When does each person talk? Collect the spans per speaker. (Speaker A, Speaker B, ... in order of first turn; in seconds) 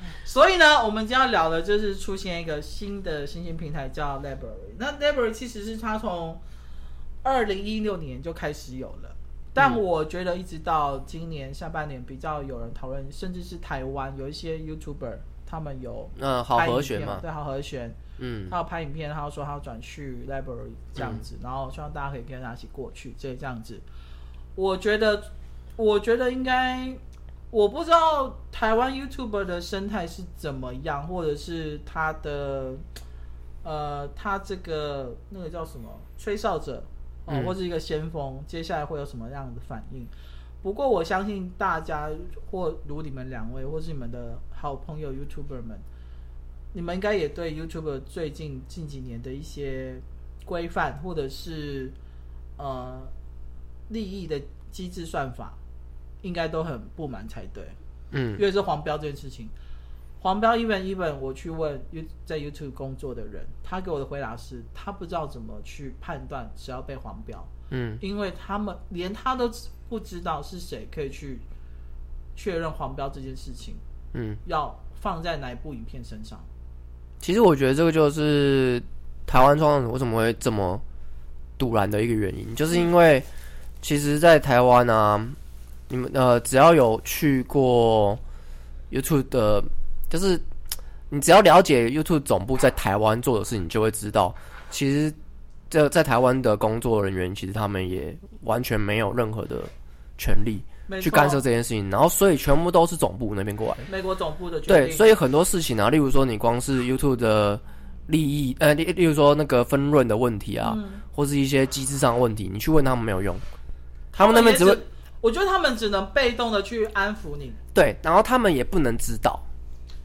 Speaker A: 0.2-6.4, 7.2-18.0, 18.5-23.8, 24.6-32.8, 33.6-40.1, 40.6-45.8, 46.7-52.0, 52.6-53.1, 53.9-55.6, 56.2-57.8, 58.4-59.5, 60.2-71.5, 72.4-73.8, 74.5-76.5, 100.9-101.4, 103.9-105.1, 110.6-111.0, 114.1-117.6
Speaker B: 16.2-17.2, 18.2-18.6, 37.3-37.5, 58.1-58.4, 67.7-68.0, 74.1-74.4, 77.2-80.8, 81.6-83.3, 83.8-85.4, 85.9-88.2, 88.9-90.4, 91.1-95.2, 95.7-103.9, 104.7-113.4, 114.1-114.8, 117.7-119.4